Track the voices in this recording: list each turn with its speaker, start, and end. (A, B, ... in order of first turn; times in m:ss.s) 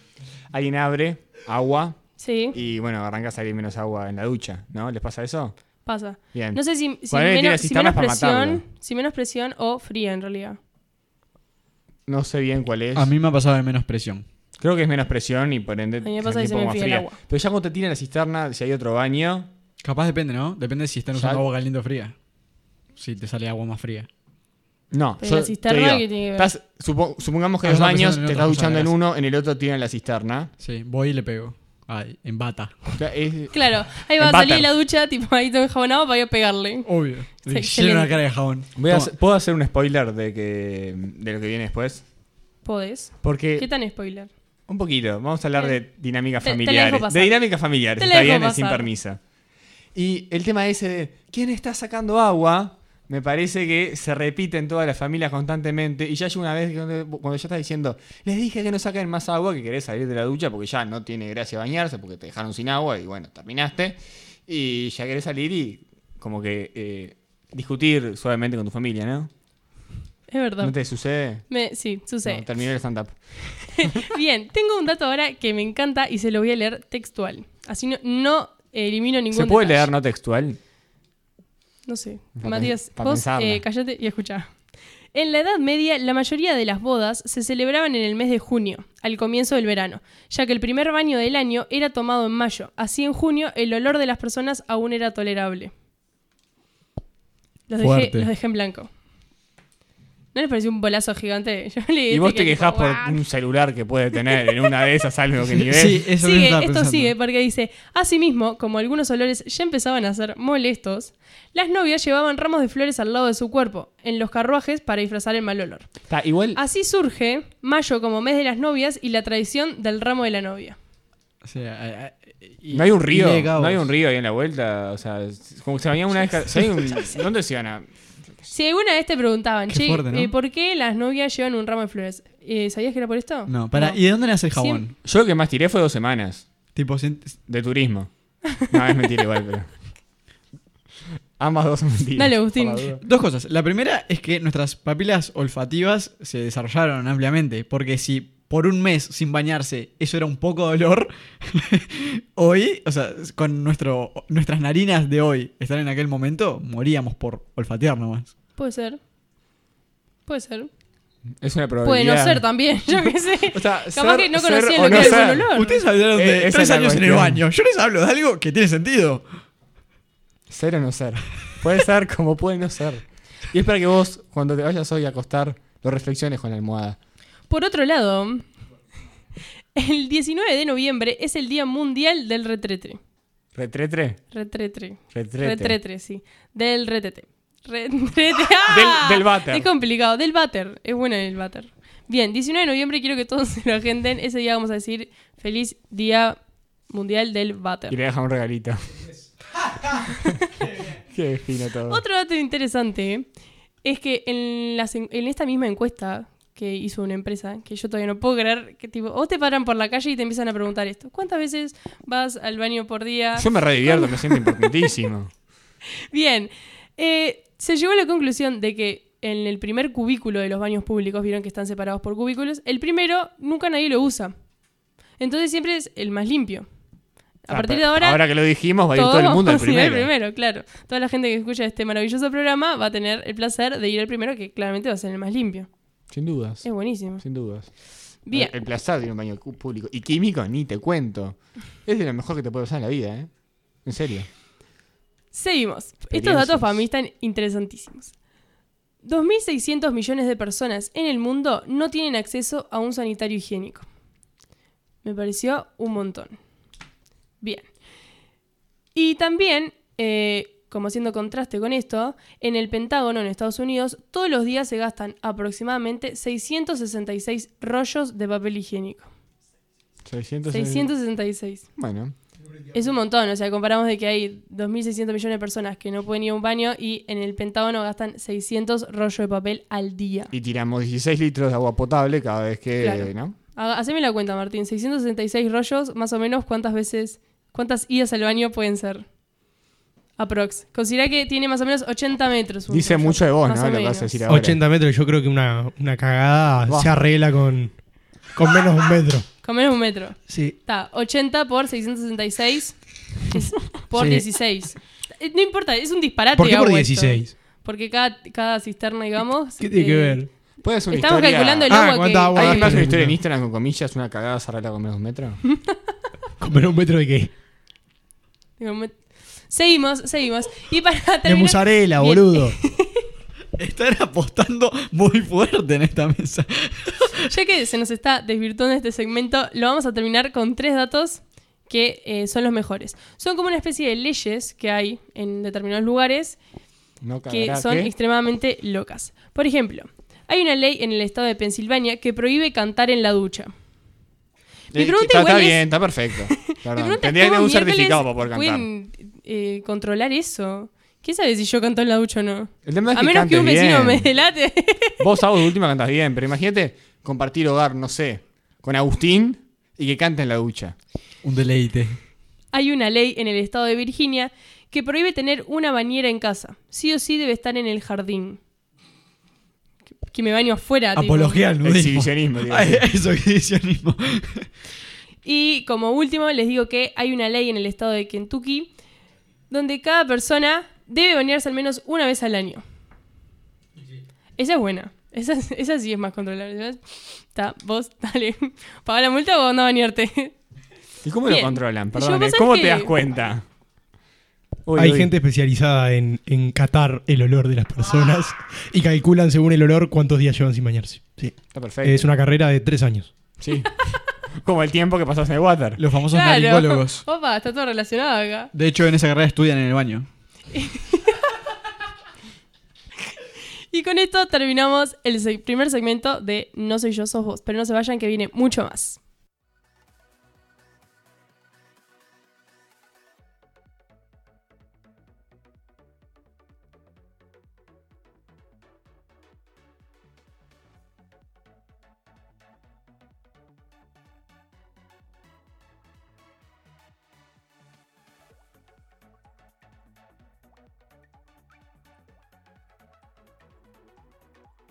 0:00.5-0:02.0 A
0:02.2-0:02.6 B
0:02.5-0:05.6 A
0:05.9-0:10.6 B
0:06.3-0:08.6 A
0:12.1-0:13.1 A
0:13.0-0:14.2 C
0:14.6-0:19.5 A
0:16.0-0:17.2 B
0:19.8-0:22.2 C
0:21.1-0:21.4 A
0:23.0-0:24.1 C
0:24.9-0:30.5 A
0:25.2-0:26.5 B
0:27.6-0:28.9 C
0:30.6-0:32.8 C
0:33.0-0:34.7 A
0:33.5-0:36.9 B
0:36.9-0:39.1 C
0:37.4-0:38.2 B
0:38.8-0:42.0 A
0:42.6-0:44.3 B
0:43.2-0:43.7 A
0:44.7-0:49.2 A
0:46.4-0:47.3 B
0:48.0-0:48.9 B
0:50.0-1:09.3 A
1:10.3-1:10.8 B
1:10.6-1:11.4 A
1:11.5-1:12.5 B
1:12.2-1:13.2 A
1:13.6-1:19.9 B
1:19.3-1:20.6 A
1:21.9-1:24.5 B
1:22.4-1:23.6 A
1:25.1-1:35.7 B
1:37.7-1:38.9 B
1:37.8-1:38.3 C
1:40.3-1:43.2 B
1:42.1-1:46.0 A
1:45.6-1:47.1 C
1:46.2-1:55.9 B
1:56.1-1:56.6 A
1:56.6-2:00.8 B
2:01.4-2:03.9 C
2:02.7-2:07.9 A
2:08.5-2:14.0 B
2:09.7-2:10.3 C
2:13.5-2:15.0 C
2:14.5-2:14.8 B
2:15.0-2:16.5 A
2:16.8-2:17.4 C
2:17.5-2:19.7 A
2:21.4-2:23.0 A
2:22.2-2:22.9 B
2:23.0-2:38.3 C
2:38.6-2:39.0 B
2:40.3-2:40.7 B
2:41.4-2:42.4 A
2:41.8-2:45.8 B
2:43.5-2:45.5 A
2:44.8-2:49.2 C
2:46.1-2:47.4 A
2:50.5-2:57.0 A
2:57.5-2:58.5 B
2:59.8-3:03.0 B
3:03.6-3:04.2 A
3:04.3-3:16.4 B
3:05.1-3:05.8 A
3:08.7-3:09.7 A
3:16.9-3:18.0 B
3:17.9-3:18.8 A
3:19.9-3:20.5 B
3:20.9-3:22.0 A
3:21.9-3:23.3 B
3:23.8-3:34.9 B
3:33.4-3:35.3 A
3:36.1-3:44.3 B
3:45.2-3:46.7 B
3:47.4-3:48.2 B
3:47.5-3:50.1 A
3:48.9-3:55.7 B
3:56.1-3:57.7 A
3:56.6-3:57.2 B
3:58.2-3:58.5 B
3:58.3-4:03.3 A
4:03.8-4:04.3 A
4:05.3-4:08.1 B
4:06.1-4:06.8 A
4:09.0-4:13.9 B
4:15.0-4:16.4 B
4:17.4-4:17.7 B
4:19.0-4:29.1 B
4:30.0-4:30.9 A
4:30.5-4:31.7 B
4:31.8-4:32.2 A
4:32.7-4:40.3 B
4:40.3-4:43.4 A
4:42.8-4:49.1 B
4:50.2-4:54.2 B
4:52.7-4:54.6 A
4:54.3-4:57.8 D
4:56.7-4:56.9 A
4:58.4-4:59.3 D
4:59.4-5:10.3 B
5:00.3-5:00.6 D
5:04.0-5:04.2 D
5:06.4-5:07.3 D
5:09.6-5:10.3 D
5:10.6-5:15.4 A
5:10.9-5:12.8 B
5:11.7-5:13.2 D
5:15.5-5:15.8 B
5:16.4-5:17.3 D
5:18.6-5:18.9 B
5:19.5-5:23.0 B
5:21.2-5:22.6 D
5:23.6-5:27.2 C
5:27.2-5:36.4 B
5:37.0-5:37.9 A
5:37.3-5:43.5 B
5:44.7-5:45.7 B
5:44.7-5:48.7 A
5:46.3-5:55.1 B
5:52.7-5:54.1 A
5:55.0-6:00.8 A
6:01.2-6:02.0 C
6:02.5-6:08.4 B
6:10.1-6:11.4 B
6:11.0-6:14.5 C
6:11.6-6:12.8 A
6:15.2-6:18.7 B
6:19.5-6:22.6 B
6:24.4-6:30.4 B
6:31.0-6:33.4 A
6:31.3-6:33.0 B
6:34.7-6:35.1 A
6:34.8-6:43.1 D
6:41.5-6:42.1 A
6:43.4-6:43.8 A
6:44.4-6:45.8 A
6:45.8-6:47.0 C
6:46.1-6:48.5 B
6:48.5-6:50.1 C
6:50.5-6:51.3 B
6:53.7-6:59.0 B